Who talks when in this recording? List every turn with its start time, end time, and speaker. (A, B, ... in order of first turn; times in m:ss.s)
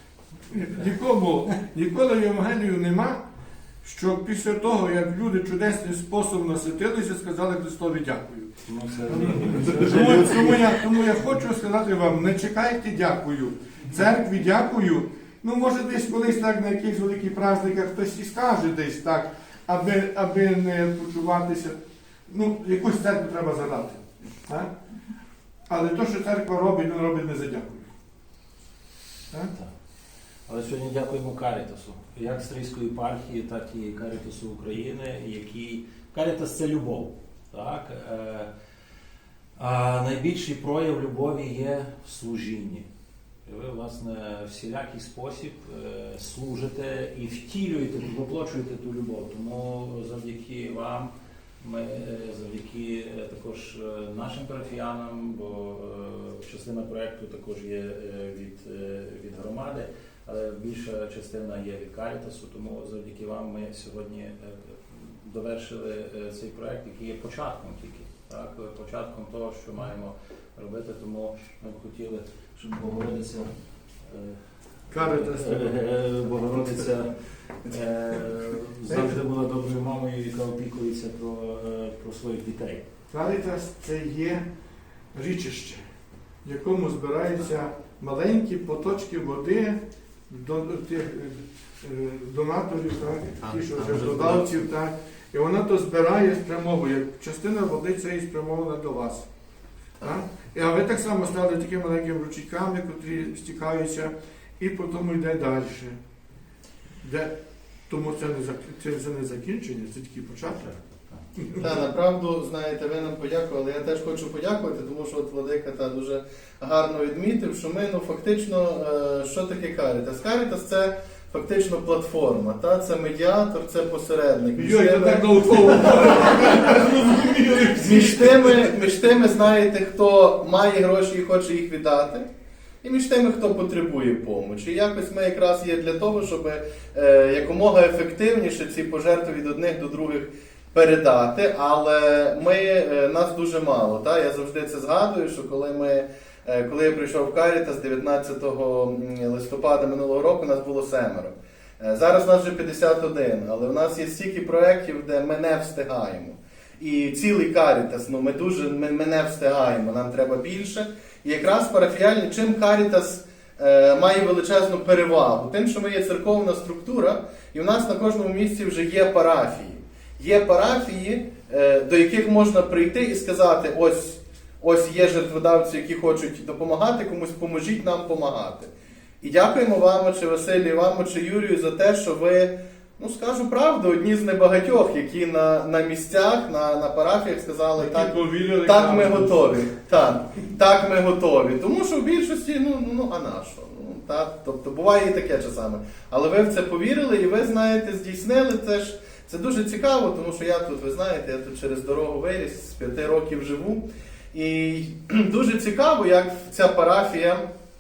0:00.5-0:03.2 A
0:03.8-0:08.6 A
0:08.6-0:10.8 B
0:09.1-0:21.8 A
0:22.3-0:24.7 A
0:25.7-0:27.9 A
0:30.5-0:38.5 B
0:39.6-0:42.9 B
0:43.4-1:17.1 B
1:14.9-1:15.8 A
1:17.6-1:22.8 B
1:18.9-1:19.2 A
1:23.1-1:24.4 A
1:25.1-1:25.8 A
1:26.4-1:39.2 A
1:33.5-1:34.4 C
1:40.0-1:46.0 A
1:47.0-1:47.3 A
1:47.9-1:50.7 A
1:50.6-1:51.2 B
1:51.4-1:51.8 A
1:51.5-2:06.8 C
2:04.6-2:08.7 A
2:07.8-2:12.2 C
2:12.8-3:27.4 C
3:07.8-3:09.7 A